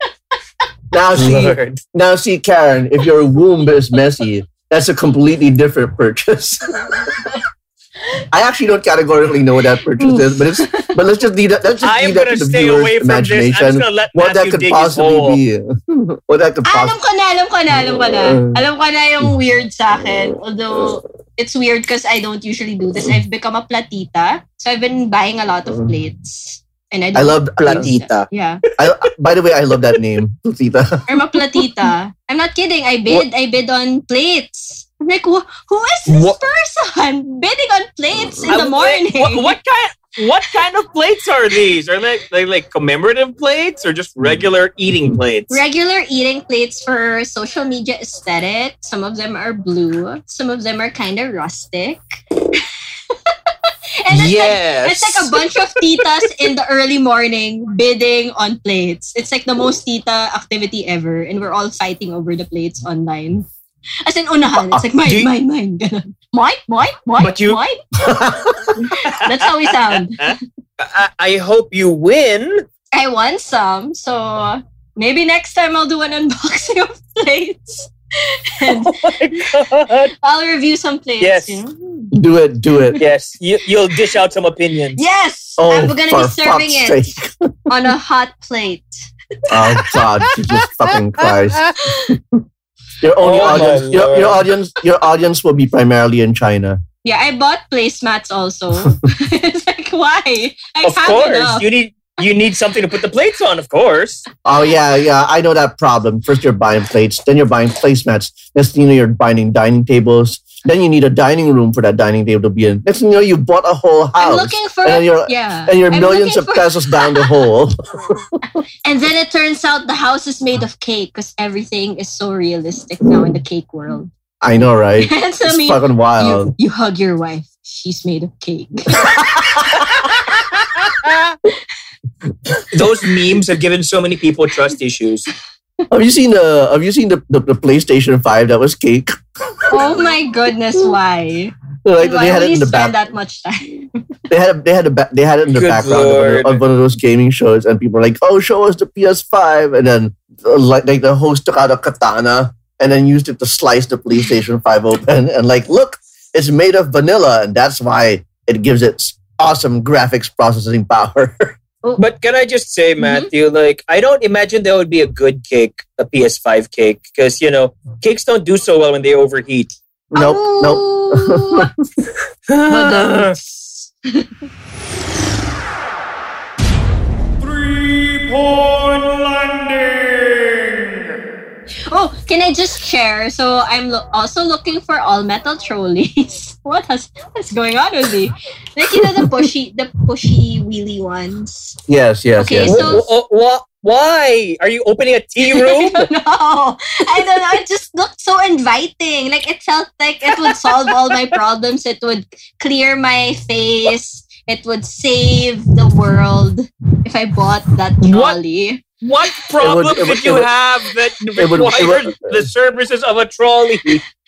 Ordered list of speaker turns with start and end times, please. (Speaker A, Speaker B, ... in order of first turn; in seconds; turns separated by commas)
Speaker A: 0.9-7.3, Speaker B: 1.1-1.8, Speaker A: 8.3-17.0, Speaker C: 10.0-10.9, Speaker B: 11.8-15.4, Speaker C: 16.6-28.6, Speaker A: 17.8-18.6, Speaker A: 27.1-27.9, Speaker B: 27.6-28.3, Speaker A: 28.8-31.0, Speaker B: 29.7-30.0, Speaker C: 31.1-39.5, Speaker B: 36.1-36.4, Speaker B: 38.5-45.6, Speaker C: 45.5-52.0, Speaker C: 53.1-63.5, Speaker B: 54.1-56.3, Speaker C: 64.0-70.4, Speaker B: 65.0-65.3, Speaker B: 67.2-67.6, Speaker A: 68.0-68.8, Speaker B: 68.9-72.7, Speaker C: 72.9-79.5, Speaker B: 78.7-80.1, Speaker C: 80.2-82.1, Speaker B: 81.2-81.6, Speaker A: 82.1-83.0, Speaker B: 83.0-85.0, Speaker C: 85.0-87.2, Speaker A: 85.6-87.5, Speaker C: 87.7-89.1, Speaker A: 89.5-92.4, Speaker C: 89.7-90.0, Speaker C: 91.8-92.2, Speaker A: 93.0-96.8, Speaker B: 93.2-94.5, Speaker C: 97.0-101.7, Speaker B: 100.8-104.2, Speaker A: 104.4-118.4, Speaker C: 114.2-117.4, Speaker C: 118.8-124.1, Speaker A: 124.4-126.5, Speaker C: 125.0-130.5, Speaker A: 129.1-129.6, Speaker B: 132.7-135.3, Speaker A: 135.9-139.9, Speaker C: 139.7-143.9, Speaker A: 141.8-142.9, Speaker A: 144.3-161.6, Speaker B: 145.5-146.6, Speaker B: 162.0-169.8, Speaker C: 163.0-163.3, Speaker A: 170.1-171.7, Speaker C: 170.1-171.7, Speaker B: 172.5-173.3, Speaker C: 172.7-174.3, Speaker B: 177.4-181.1, Speaker C: 181.9-191.8, Speaker A: 189.0-189.3, Speaker A: 191.9-193.1, Speaker C: 192.4-193.1, Speaker B: 192.6-196.1, Speaker C: 195.4-208.8, Speaker B: 200.7-201.2, Speaker B: 208.0-208.4, Speaker B: 209.0-214.0, Speaker A: 209.6-210.5, Speaker A: 211.3-212.5